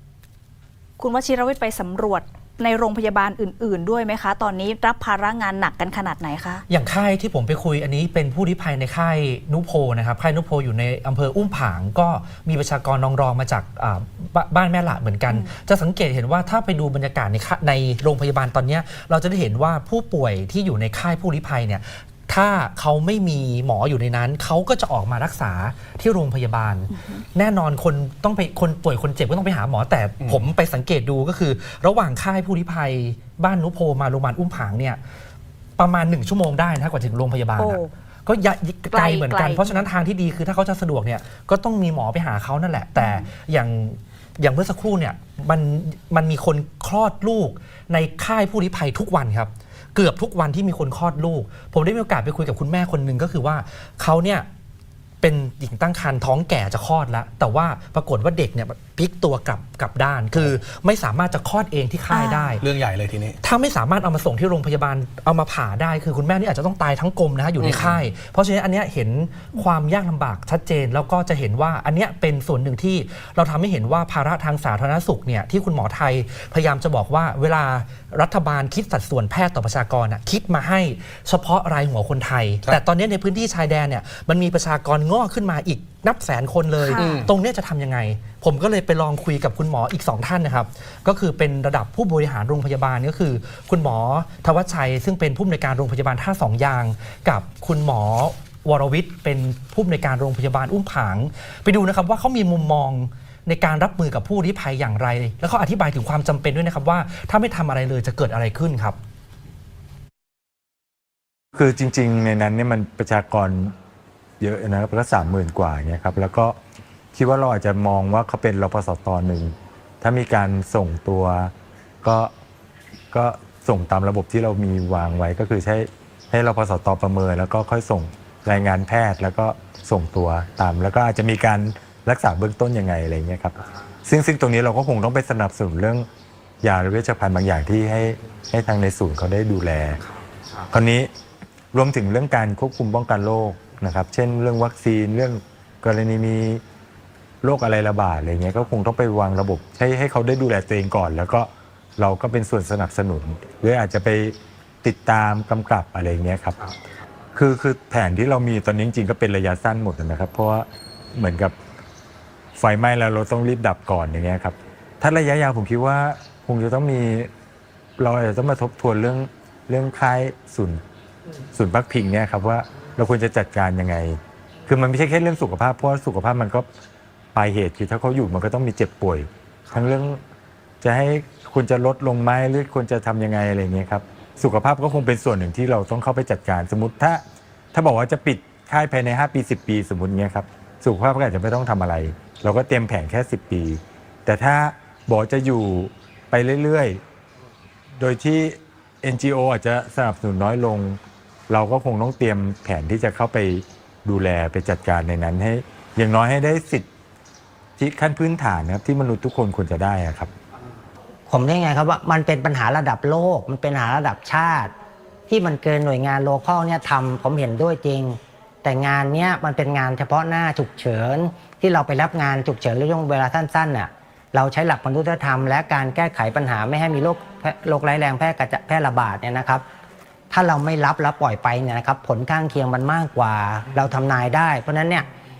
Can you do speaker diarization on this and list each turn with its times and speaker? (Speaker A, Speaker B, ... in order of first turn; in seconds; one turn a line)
Speaker A: 1.0-6.6
Speaker B: 6.7-35.0
Speaker A: 26.9-27.2
Speaker C: 30.2-30.4
Speaker B: 35.8-54.5
Speaker A: 37.6-37.9
Speaker A: 38.9-39.9
Speaker A: 43.0-43.3
Speaker B: 55.2-62.6
Speaker A: 62.1-62.6
Speaker C: 62.6-63.4
Speaker B: 63.4-109.0
Speaker C: 67.6-68.0
Speaker A: 86.8-87.3
Speaker C: 87.0-87.3
Speaker D: 111.5-113.7
Speaker D: 114.4-116.6
Speaker D: 117.1-122.3
Speaker D: 123.1-136.1
Speaker D: 136.6-140.0
Speaker D: 140.7-141.1
Speaker D: 141.7-146.6
Speaker D: 147.4-156.7
Speaker D: 157.3-161.5
Speaker D: 162.6-167.3
Speaker D: 168.0-170.8
Speaker D: 171.5-176.7
Speaker D: 177.3-180.2
Speaker D: 180.8-187.2
Speaker D: 187.7-197.0
Speaker D: 198.0-206.9
Speaker D: 207.8-210.3
Speaker E: 211.3-214.7
Speaker E: 215.3-229.6
Speaker E: 230.3-235.1